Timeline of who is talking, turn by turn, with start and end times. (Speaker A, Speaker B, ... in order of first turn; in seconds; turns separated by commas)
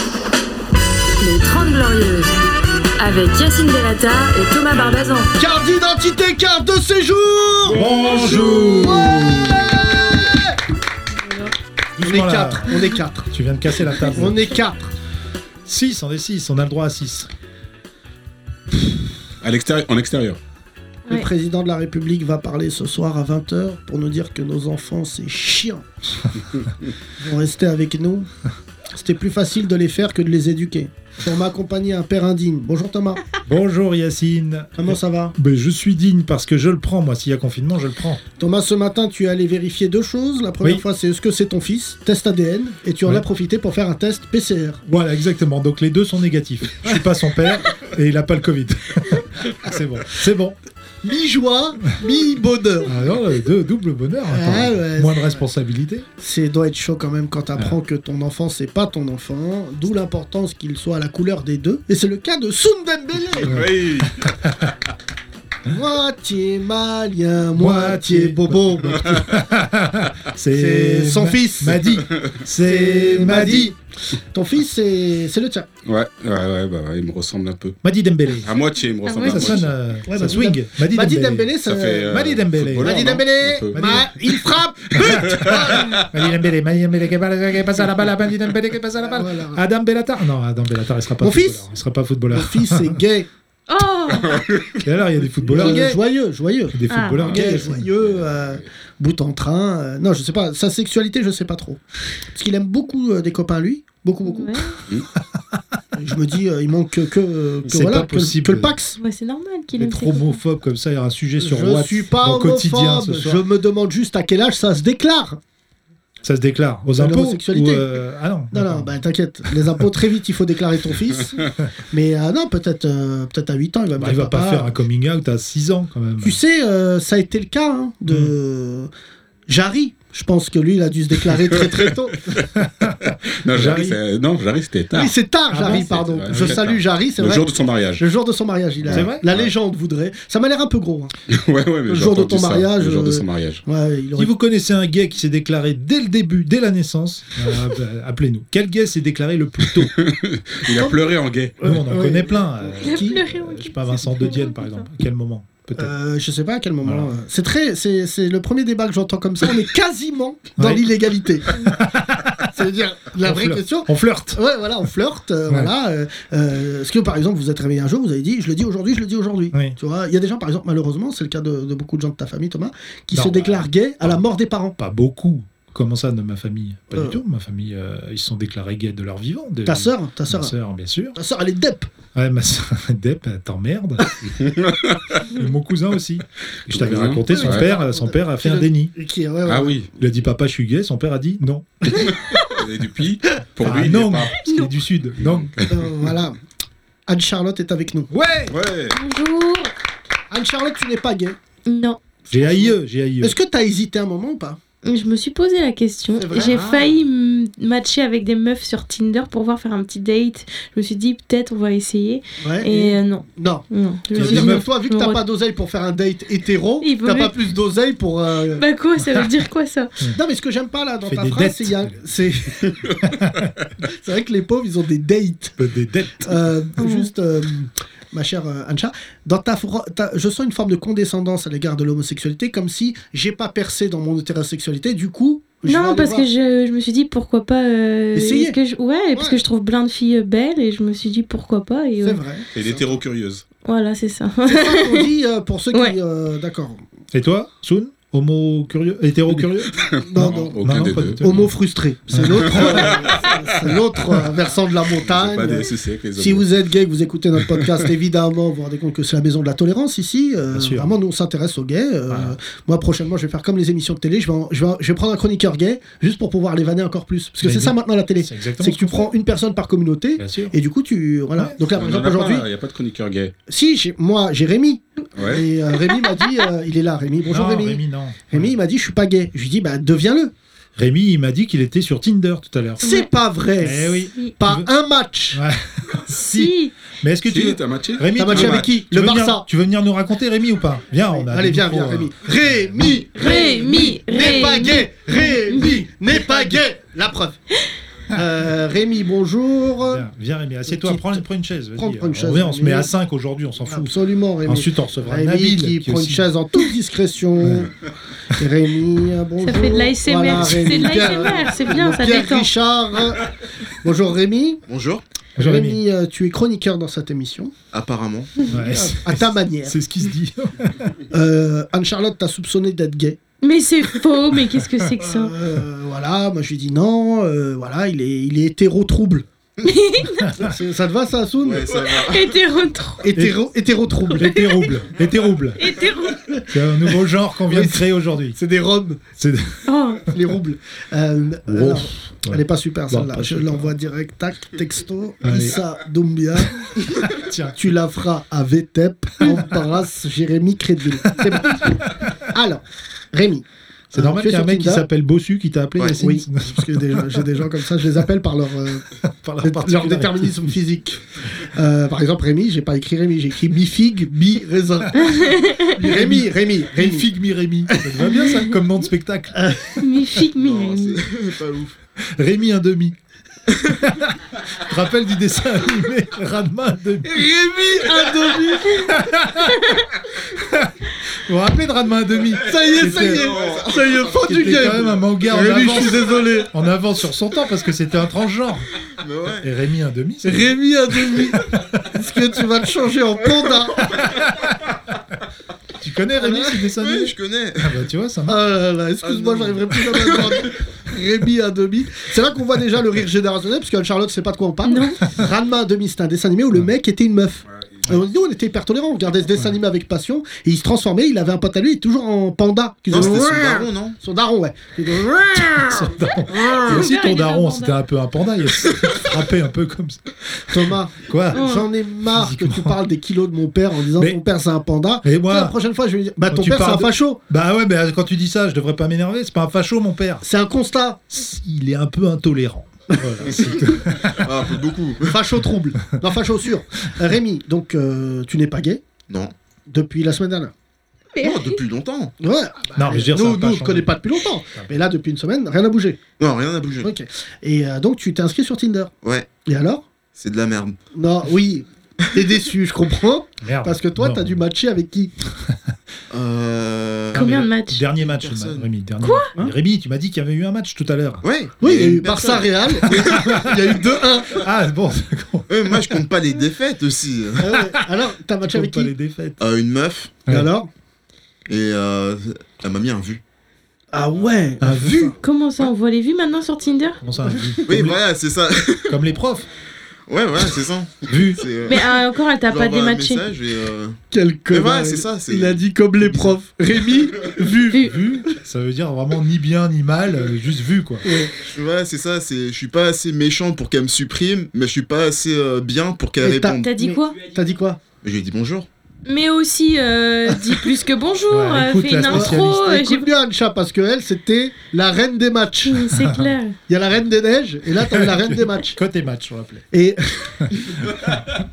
Speaker A: 1.2-2.4, Speaker A: 3.0-5.3, Speaker B: 5.3-10.6, Speaker C: 7.7-9.9, Speaker D: 11.2-11.5, Speaker C: 12.0-14.5, Speaker B: 12.0-13.3, Speaker B: 14.0-14.9, Speaker C: 15.6-17.3, Speaker E: 19.4-20.4, Speaker B: 21.1-25.8, Speaker B: 27.2-28.3, Speaker B: 28.9-33.2, Speaker C: 33.5-38.2, Speaker B: 34.8-35.3, Speaker B: 38.4-44.8, Speaker C: 44.9-50.6, Speaker B: 51.0-52.9, Speaker C: 52.8-56.0, Speaker B: 54.3-55.4, Speaker B: 56.2-63.6, Speaker E: 63.4-64.3, Speaker C: 63.4-64.7, Speaker B: 65.6-69.2, Speaker C: 67.5-73.8, Speaker B: 70.5-72.0, Speaker B: 72.6-75.7, Speaker E: 75.8-77.8, Speaker C: 77.8-78.5, Speaker E: 78.4-79.7, Speaker D: 79.0-79.6, Speaker C: 79.2-83.2, Speaker B: 80.1-82.1, Speaker E: 81.6-84.4, Speaker B: 82.8-86.0, Speaker C: 83.7-84.1, Speaker C: 84.9-93.0, Speaker E: 85.1-85.6, Speaker B: 89.0-89.6, Speaker B: 91.2-91.7, Speaker B: 92.3-93.3, Speaker D: 93.7-94.4, Speaker E: 94.2-94.8, Speaker C: 94.8-96.0, Speaker B: 95.5-104.7, Speaker C: 96.7-97.9, Speaker D: 96.9-97.4, Speaker E: 97.9-98.6, Speaker D: 104.2-104.8, Speaker C: 105.3-105.6, Speaker B: 105.9-109.0, Speaker C: 107.7-108.8, Speaker D: 109.0-110.4, Speaker C: 109.7-113.4, Speaker B: 111.4-115.4, Speaker C: 116.2-119.9, Speaker B: 117.0-124.8, Speaker C: 124.0-126.4, Speaker B: 126.2-128.9, Speaker C: 128.1-128.3, Speaker B: 129.5-132.4, Speaker C: 132.6-134.0, Speaker E: 133.2-138.0, Speaker B: 134.9-141.1, Speaker C: 135.5-136.8, Speaker E: 138.8-139.5, Speaker C: 138.9-139.2, Speaker E: 141.3-143.6, Speaker B: 141.9-144.3, Speaker C: 144.2-150.0, Speaker E: 149.7-151.6, Speaker B: 150.7-153.3, Speaker C: 151.6-155.9, Speaker D: 152.8-154.9, Speaker B: 155.8-161.7, Speaker C: 156.8-157.2, Speaker C: 160.6-162.5, Speaker B: 162.4-174.8, Speaker C: 163.2-164.9, Speaker C: 169.5-169.8, Speaker C: 173.1-174.2, Speaker C: 174.8-181.2, Speaker B: 176.9-177.2, Speaker B: 179.7-180.5, Speaker B: 181.1-181.9, Speaker C: 182.1-184.1, Speaker E: 184.2-185.2, Speaker C: 185.3-188.9, Speaker E: 186.7-187.7, Speaker B: 187.0-189.8, Speaker E: 189.4-189.9, Speaker C: 190.0-192.1, Speaker E: 192.4-194.4, Speaker C: 193.6-195.6, Speaker D: 194.3-194.7, Speaker E: 195.2-195.8, Speaker B: 195.7-196.4, Speaker B: 197.1-198.1, Speaker C: 198.1-198.6, Speaker E: 198.5-199.0, Speaker D: 198.9-199.7, Speaker B: 200.3-201.4, Speaker D: 201.7-202.0, Speaker B: 202.3-204.6, Speaker C: 202.3-203.3, Speaker D: 204.8-215.2, Speaker B: 206.1-207.0, Speaker B: 212.4-218.6, Speaker C: 214.1-214.6, Speaker D: 216.8-217.3, Speaker D: 218.5-220.0, Speaker B: 220.1-222.8, Speaker C: 221.1-222.0, Speaker C: 223.0-223.5, Speaker B: 223.8-225.6, Speaker C: 225.6-226.7, Speaker B: 226.2-236.3, Speaker D: 226.8-227.1, Speaker D: 235.6-242.2, Speaker B: 238.1-238.6, Speaker B: 239.1-239.4, Speaker B: 242.0-243.0, Speaker E: 242.5-243.4, Speaker D: 243.6-245.1, Speaker B: 244.4-246.8, Speaker D: 245.7-246.0, Speaker C: 247.1-251.6, Speaker E: 249.9-251.2, Speaker B: 249.9-272.5, Speaker C: 252.1-253.0, Speaker E: 252.5-253.4, Speaker E: 254.9-256.5, Speaker C: 260.5-260.9, Speaker C: 262.1-262.4, Speaker C: 267.4-269.2, Speaker C: 270.2-270.5, Speaker C: 271.4-271.6, Speaker E: 271.7-273.3, Speaker B: 273.5-280.3, Speaker E: 275.1-275.4, Speaker D: 275.9-276.2, Speaker C: 277.3-278.6, Speaker C: 280.8-282.8, Speaker D: 282.8-283.1, Speaker B: 282.8-285.4, Speaker C: 283.6-284.7, Speaker C: 285.3-293.1, Speaker D: 286.1-286.7, Speaker E: 287.2-288.7, Speaker B: 288.1-289.5, Speaker B: 291.1-297.4, Speaker D: 293.1-295.8, Speaker B: 298.1-300.1, Speaker C: 299.8-306.2, Speaker B: 300.6-302.9, Speaker B: 303.7-307.7, Speaker C: 307.4-307.7, Speaker B: 308.2-314.6, Speaker D: 309.4-312.5, Speaker C: 310.3-310.9, Speaker F: 314.7-315.0, Speaker C: 315.4-315.8, Speaker B: 315.4-317.5, Speaker F: 317.7-318.4, Speaker C: 318.5-320.9, Speaker B: 318.5-319.8, Speaker B: 321.0-323.2, Speaker D: 323.4-325.3, Speaker C: 324.5-324.9, Speaker B: 325.0-329.2, Speaker D: 329.6-330.4, Speaker B: 330.3-331.8, Speaker F: 331.4-332.4, Speaker D: 331.9-333.1, Speaker B: 333.0-334.5, Speaker C: 333.1-333.4, Speaker C: 334.1-335.7, Speaker D: 335.6-336.3, Speaker B: 336.3-339.0, Speaker C: 336.5-338.4, Speaker C: 339.2-339.7, Speaker D: 339.6-340.1, Speaker B: 340.1-346.9, Speaker C: 341.5-343.7, Speaker C: 345.2-345.6, Speaker C: 346.4-347.6, Speaker B: 347.5-354.9, Speaker C: 351.1-352.1, Speaker C: 353.9-357.5, Speaker B: 356.0-358.9, Speaker C: 359.0-360.5, Speaker B: 359.4-367.1, Speaker D: 365.0-365.7, Speaker C: 365.8-369.7, Speaker B: 367.7-368.2, Speaker D: 368.0-368.5, Speaker B: 369.3-369.8, Speaker D: 369.8-371.1, Speaker F: 370.3-371.8, Speaker C: 372.1-372.9, Speaker C: 373.6-377.3, Speaker B: 377.0-378.9, Speaker C: 378.7-379.6, Speaker C: 380.3-383.3, Speaker B: 382.4-386.5, Speaker F: 382.9-384.5, Speaker C: 384.1-388.7, Speaker F: 389.0-389.5, Speaker C: 389.4-392.0, Speaker B: 390.2-394.0, Speaker C: 393.9-394.6, Speaker C: 395.8-398.4, Speaker B: 396.1-396.6, Speaker F: 396.7-397.8, Speaker B: 398.3-415.9, Speaker F: 399.0-400.3, Speaker D: 404.6-405.0, Speaker F: 412.9-413.9, Speaker C: 415.5-422.8, Speaker D: 416.5-417.7, Speaker B: 420.5-427.2, Speaker D: 421.3-421.6, Speaker C: 423.9-424.2, Speaker C: 425.0-425.5, Speaker C: 426.3-430.2, Speaker B: 430.2-431.0, Speaker C: 431.1-434.5, Speaker F: 433.4-435.2, Speaker B: 435.1-438.8, Speaker F: 439.1-439.3, Speaker B: 439.7-440.5, Speaker D: 441.1-441.6, Speaker F: 441.2-442.1, Speaker B: 442.2-446.0, Speaker C: 442.7-444.0, Speaker C: 444.5-444.8, Speaker F: 446.2-446.9, Speaker B: 446.8-448.9, Speaker F: 449.0-449.3, Speaker B: 449.4-449.8, Speaker F: 450.1-450.8, Speaker B: 450.9-455.1, Speaker C: 453.4-454.4, Speaker F: 456.1-458.7, Speaker C: 457.1-461.2, Speaker D: 457.1-457.8, Speaker D: 459.0-459.3, Speaker F: 461.2-463.9, Speaker B: 461.6-464.5, Speaker C: 462.9-463.4, Speaker C: 464.3-466.0, Speaker F: 465.5-467.5, Speaker B: 467.4-468.9, Speaker C: 467.5-467.9, Speaker C: 468.4-469.4, Speaker F: 469.4-470.2, Speaker B: 470.3-470.7, Speaker F: 471.5-473.2, Speaker B: 473.9-475.2, Speaker C: 474.6-475.1, Speaker D: 475.2-477.0, Speaker C: 477.0-478.0, Speaker F: 477.7-479.0, Speaker C: 478.9-479.5, Speaker F: 480.1-484.0, Speaker C: 481.0-481.4, Speaker D: 481.6-483.3, Speaker B: 484.1-487.9, Speaker F: 484.5-486.3, Speaker D: 487.7-488.0, Speaker C: 487.8-491.0, Speaker B: 491.0-491.3, Speaker F: 491.4-496.7, Speaker B: 496.2-497.8, Speaker D: 496.6-497.2, Speaker F: 498.0-498.7, Speaker D: 499.1-503.1, Speaker C: 501.3-502.6, Speaker B: 502.1-505.9, Speaker D: 505.6-506.6, Speaker C: 505.9-506.3, Speaker B: 506.7-508.8, Speaker C: 507.8-509.6, Speaker B: 509.7-510.5, Speaker C: 510.4-511.3